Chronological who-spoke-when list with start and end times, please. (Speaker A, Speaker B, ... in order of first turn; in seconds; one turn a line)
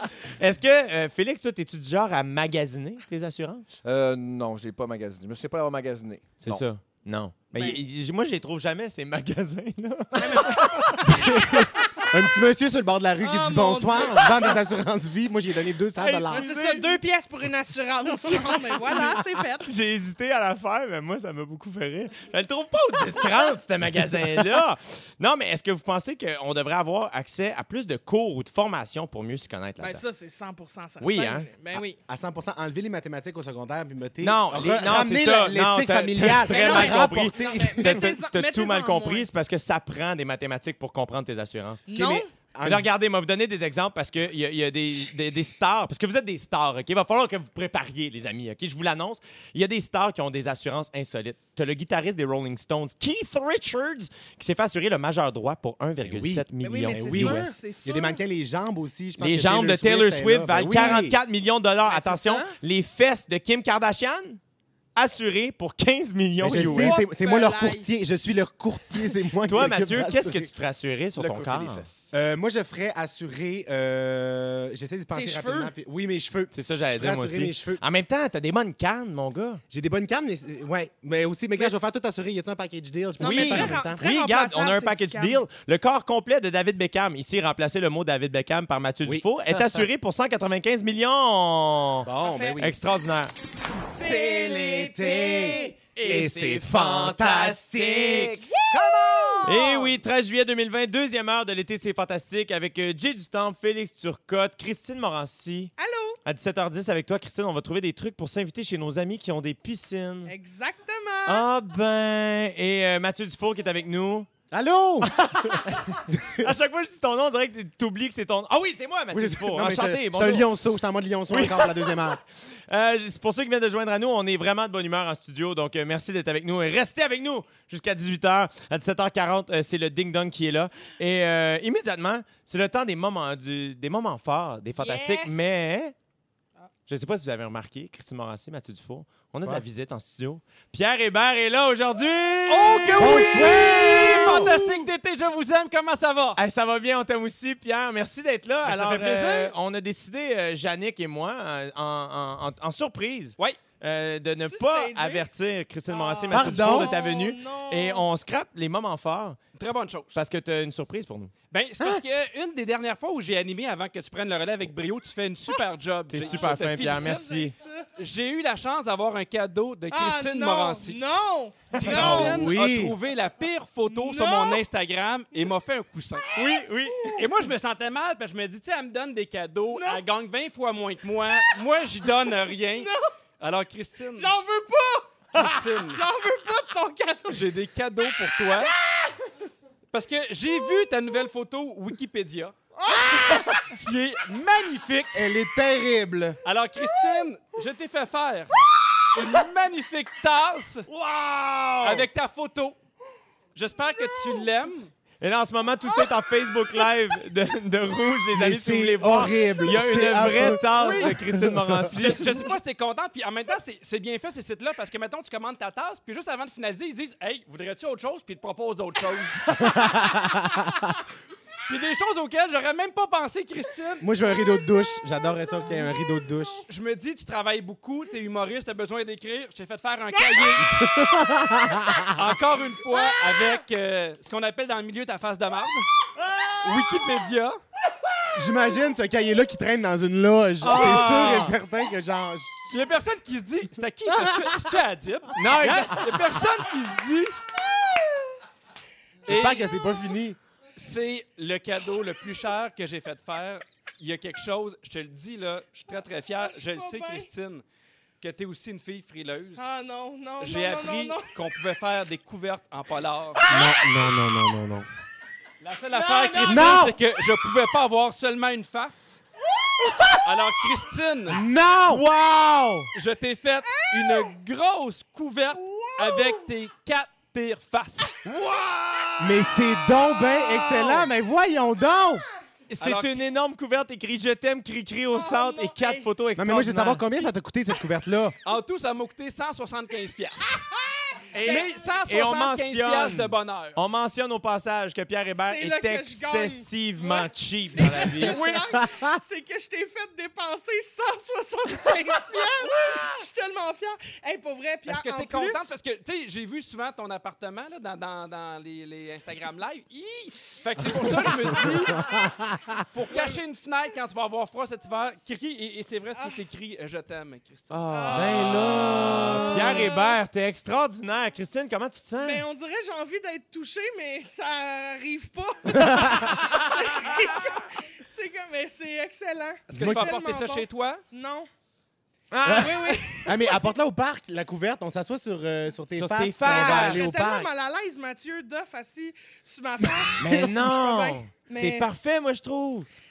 Speaker A: 0.4-3.6
Speaker B: 3.9-6.6
Speaker A: 6.4-11.7
Speaker C: 7.5-7.8
Speaker C: 10.2-12.0
Speaker D: 11.0-16.5
Speaker C: 13.2-14.5
Speaker C: 16.0-19.7
Speaker A: 16.2-16.9
Speaker A: 18.3-30.0
Speaker C: 29.8-32.0
Speaker A: 31.0-31.5
Speaker D: 32.1-38.2
Speaker A: 34.2-41.9
Speaker C: 36.5-39.3
Speaker C: 41.9-42.3
Speaker D: 41.9-42.9
Speaker A: 42.6-57.5
Speaker D: 56.0-61.2
Speaker C: 56.6-58.2
Speaker A: 59.2-64.4
Speaker C: 61.9-62.5
Speaker A: 65.0-67.0
Speaker D: 66.4-70.5
Speaker C: 66.5-67.9
Speaker A: 69.5-71.9
Speaker D: 71.2-77.8
Speaker C: 75.1-75.7
Speaker A: 76.5-79.6
Speaker D: 79.7-84.0
Speaker C: 83.2-85.4
Speaker A: 83.2-93.3
Speaker D: 92.0-92.8
Speaker C: 92.2-92.6
Speaker A: 93.8-98.4
Speaker D: 93.9-99.5
Speaker B: 98.7-99.7
Speaker A: 99.4-105.7
Speaker C: 105.8-106.2
Speaker A: 106.2-110.3
Speaker C: 110.3-111.5
Speaker A: 111.3-114.3
Speaker D: 114.5-116.5
Speaker A: 115.0-120.5
Speaker D: 119.1-122.2
Speaker A: 121.3-135.9
Speaker C: 134.8-135.4
Speaker A: 136.9-144.8
Speaker E: 142.5-146.4
Speaker D: 143.0-144.5
Speaker A: 146.4-159.4
Speaker E: 148.7-149.5
Speaker C: 154.5-155.3
Speaker C: 155.9-158.1
Speaker D: 156.3-156.9
Speaker E: 159.6-160.2
Speaker A: 160.2-161.3
Speaker E: 161.5-167.4
Speaker A: 166.1-167.6
Speaker C: 166.9-167.9
Speaker E: 168.0-171.0
Speaker C: 169.9-172.4
Speaker E: 171.8-176.3
Speaker A: 171.8-172.4
Speaker D: 171.9-173.0
Speaker C: 173.9-174.6
Speaker A: 176.3-177.2
Speaker E: 177.2-184.3
Speaker C: 179.7-180.0
Speaker C: 182.8-183.1
Speaker C: 184.2-185.2
Speaker E: 185.3-186.0
Speaker C: 185.9-187.5
Speaker E: 187.3-188.8
Speaker E: 189.9-192.6
Speaker C: 192.8-193.5
Speaker E: 193.6-195.2
Speaker D: 195.1-196.4
Speaker E: 196.4-198.5
Speaker E: 199.1-200.9
Speaker A: 200.9-202.1
Speaker E: 201.8-202.8
Speaker E: 203.6-204.9
Speaker A: 205.2-212.5
Speaker D: 208.3-211.9
Speaker E: 210.6-211.2
Speaker E: 211.9-219.7
Speaker D: 219.6-220.7
Speaker E: 221.7-224.1
Speaker D: 224.0-226.6
Speaker E: 226.7-230.7
Speaker C: 230.1-230.5
Speaker D: 230.6-232.3
Speaker E: 232.1-235.9
Speaker A: 236.2-236.7
Speaker E: 236.6-237.6
Speaker D: 238.3-242.6
Speaker E: 240.6-241.5
Speaker A: 240.7-241.6
Speaker E: 242.7-247.4
Speaker A: 245.3-246.2
Speaker E: 249.3-249.7
Speaker D: 249.3-250.4
Speaker E: 250.8-257.6
Speaker C: 255.9-257.3
Speaker E: 258.2-259.7
Speaker C: 259.6-261.3
Speaker E: 260.4-263.4
Speaker D: 263.5-264.9
Speaker E: 265.6-269.2
Speaker C: 266.0-266.4
Speaker D: 266.4-267.0
Speaker E: 270.2-271.4
Speaker D: 271.3-272.0
Speaker A: 271.9-272.9
Speaker E: 272.9-278.2
Speaker C: 273.7-274.3
Speaker C: 275.5-276.5
Speaker A: 278.2-281.1
Speaker D: 279.2-282.2
Speaker A: 282.7-287.1
Speaker E: 282.8-283.2
Speaker C: 285.1-286.1
Speaker D: 286.4-288.4
Speaker E: 288.4-290.7
Speaker C: 290.7-291.7
Speaker E: 291.3-293.8
Speaker A: 291.4-298.4
Speaker C: 295.4-305.7
Speaker D: 298.8-299.1
Speaker E: 304.9-312.1
Speaker D: 312.0-312.7
Speaker E: 312.9-319.5
Speaker A: 317.7-322.4
Speaker C: 317.9-320.1
Speaker C: 322.2-331.5
Speaker D: 325.7-326.3
Speaker E: 329.7-331.0
Speaker D: 329.7-330.1
Speaker A: 332.3-333.4
Speaker C: 332.4-333.4
Speaker D: 333.2-337.5
Speaker A: 335.9-337.1
Speaker C: 336.4-341.9
Speaker D: 340.2-340.5
Speaker A: 340.2-342.9